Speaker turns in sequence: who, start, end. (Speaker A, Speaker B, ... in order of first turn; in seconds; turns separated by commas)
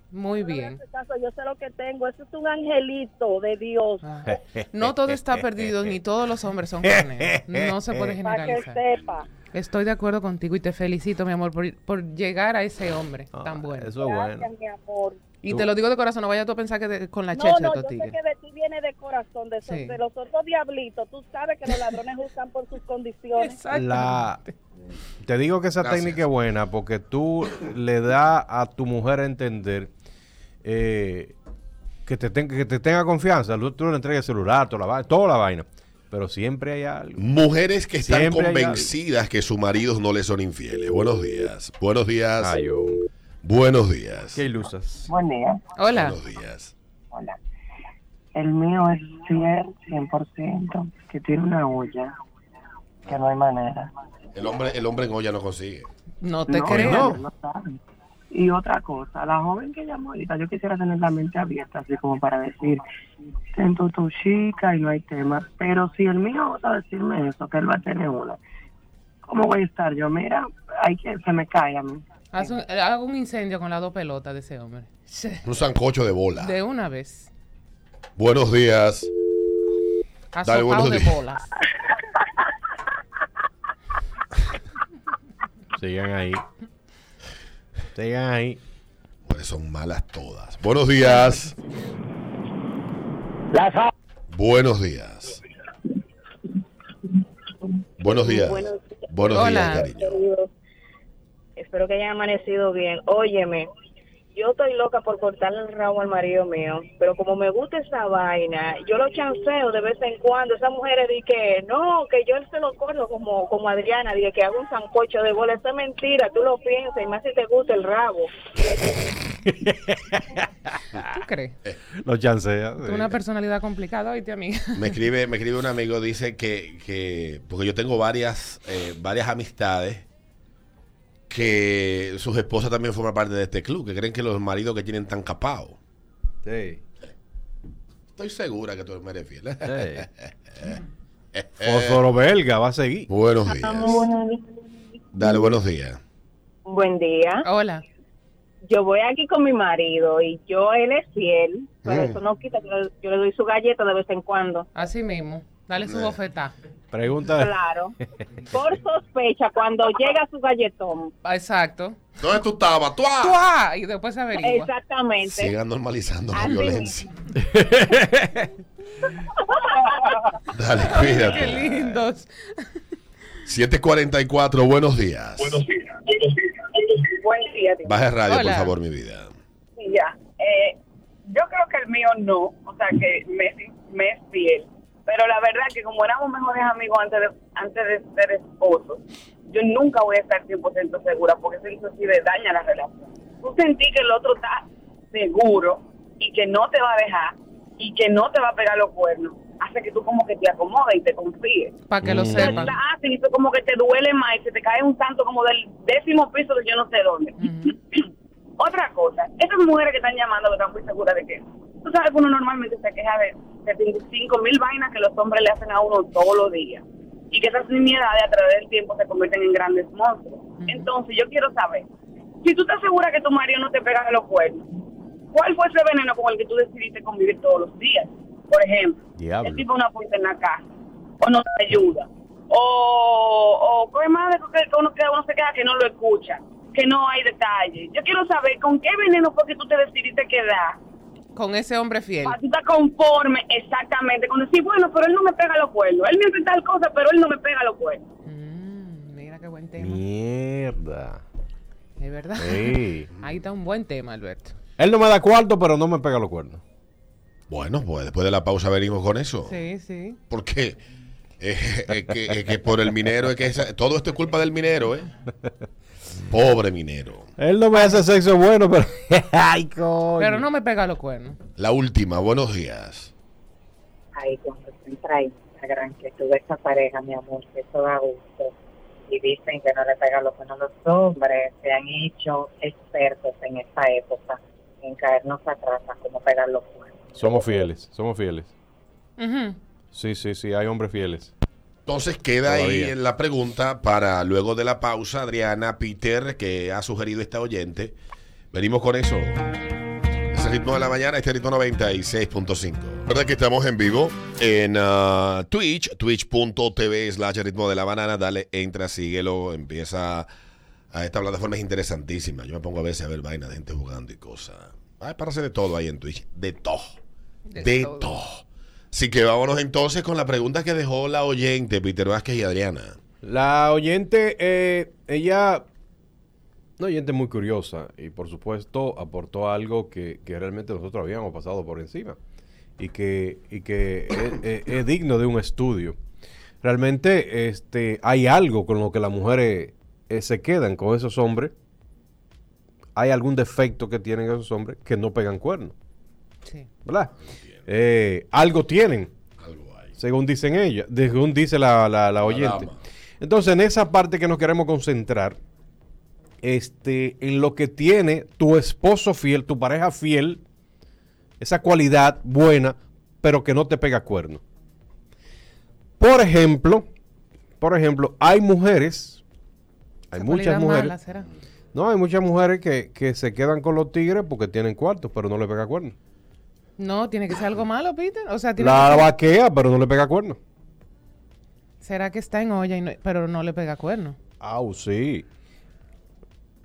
Speaker A: 0.1-0.8, Speaker B: 0.3-4.1, Speaker A: 4.0-8.8, Speaker C: 4.2-6.0, Speaker C: 6.8-8.2, Speaker B: 8.2-9.3, Speaker A: 9.5-14.0, Speaker C: 13.3-14.5, Speaker B: 14.0-15.2, Speaker A: 15.4-18.2, Speaker B: 17.3-23.6, Speaker A: 19.6-19.9, Speaker A: 23.4-24.5, Speaker C: 23.7-24.4, Speaker C: 25.2-29.9, Speaker D: 25.8-26.2, Speaker C: 30.6-31.4, Speaker C: 32.1-37.3, Speaker D: 37.2-42.6, Speaker C: 38.0-38.9, Speaker C: 42.4-43.0, Speaker D: 43.4-44.4, Speaker C: 44.4-45.1, Speaker E: 45.1-45.6, Speaker A: 45.8-46.2, Speaker D: 45.9-46.7, Speaker E: 48.4-52.1, Speaker E: 53.1-53.9, Speaker D: 54.3-55.9, Speaker A: 56.2-57.2, Speaker E: 56.5-57.8, Speaker D: 56.7-57.1, Speaker E: 58.3-62.8, Speaker E: 63.5-68.4, Speaker E: 69.2-72.0, Speaker A: 72.3-75.5, Speaker D: 75.5-76.6, Speaker A: 76.4-77.3, Speaker D: 78.2-79.1, Speaker A: 80.3-81.5, Speaker D: 80.4-81.2, Speaker C: 85.8-86.4, Speaker C: 88.0-88.6, Speaker D: 89.2-91.5, Speaker D: 94.3-95.4, Speaker D: 98.0-100.2, Speaker B: 98.1-100.5, Speaker A: 99.3-99.9, Speaker B: 101.6-103.7, Speaker B: 104.3-118.3, Speaker C: 119.5-121.1, Speaker A: 121.1-121.6, Speaker C: 122.0-123.2, Speaker A: 122.8-124.9, Speaker D: 124.7-130.1, Speaker D: 131.3-135.8, Speaker C: 136.4-136.8, Speaker D: 138.2-140.7, Speaker C: 139.7-140.1, Speaker D: 141.3-142.0, Speaker C: 141.6-143.1, Speaker D: 143.1-144.1, Speaker B: 143.7-144.1, Speaker D: 145.1-146.0, Speaker B: 146.7-147.4, Speaker A: 147.4-147.8, Speaker B: 148.6-154.7, Speaker D: 151.8-152.2, Speaker A: 154.8-156.5, Speaker D: 155.8-156.2, Speaker C: 156.9-157.6, Speaker B: 157.4-157.9, Speaker B: 158.5-161.1, Speaker A: 161.2-162.0, Speaker D: 162.2-163.4, Speaker A: 163.2-164.7, Speaker B: 164.4-165.5, Speaker D: 165.2-167.1, Speaker B: 166.4-166.9, Speaker C: 167.4-168.5, Speaker D: 170.5-171.8, Speaker A: 170.8-172.7, Speaker D: 173.5-175.6, Speaker F: 177.0-177.9, Speaker D: 177.8-179.3, Speaker A: 178.3-178.7, Speaker F: 179.8-201.7, Speaker A: 201.9-202.8, Speaker C: 202.0-202.7, Speaker F: 202.4-208.0, Speaker A: 207.4-207.8, Speaker F: 208.6-221.9, Speaker A: 220.6-220.9, Speaker F: 222.4-224.7, Speaker F: 225.3-230.7, Speaker C: 229.2-229.7, Speaker F: 231.2-240.8, Speaker A: 241.3-242.4, Speaker F: 242.2-248.1, Speaker A: 248.3-250.0, Speaker C: 249.8-251.2, Speaker A: 252.0-254.6, Speaker C: 252.4-253.1, Speaker C: 254.8-256.6, Speaker D: 257.5-259.6, Speaker A: 259.5-260.2, Speaker D: 260.3-260.8, Speaker D: 261.4-265.1, Speaker D: 266.3-267.3, Speaker C: 267.4-270.5, Speaker A: 267.7-268.0, Speaker A: 270.2-271.4, Speaker D: 271.6-273.1, Speaker G: 274.2-278.5, Speaker G: 279.1-286.9, Speaker C: 287.2-288.5, Speaker A: 289.2-289.6, Speaker C: 289.9-291.3, Speaker D: 291.9-298.0, Speaker C: 292.4-292.9, Speaker D: 298.5-299.4, Speaker D: 300.3-310.3, Speaker D: 310.9-317.0, Speaker A: 317.5-318.1, Speaker D: 317.6-323.0, Speaker C: 323.2-325.6, Speaker C: 326.8-332.2, Speaker C: 332.8-336.0, Speaker C: 336.6-341.5, Speaker C: 343.0-345.7, Speaker C: 346.8-347.1, Speaker D: 347.3-347.6, Speaker C: 347.7-349.1, Speaker D: 349.4-349.9, Speaker C: 350.0-352.7, Speaker D: 352.2-352.8, Speaker C: 353.2-355.4, Speaker C: 356.4-360.4, Speaker C: 361.4-364.4, Speaker C: 366.0-366.9, Speaker C: 367.6-369.2, Speaker C: 370.1-370.9, Speaker A: 370.1-371.3, Speaker C: 371.7-376.0, Speaker A: 376.8-379.1, Speaker C: 378.6-380.4, Speaker A: 381.8-384.2, Speaker C: 384.4-385.3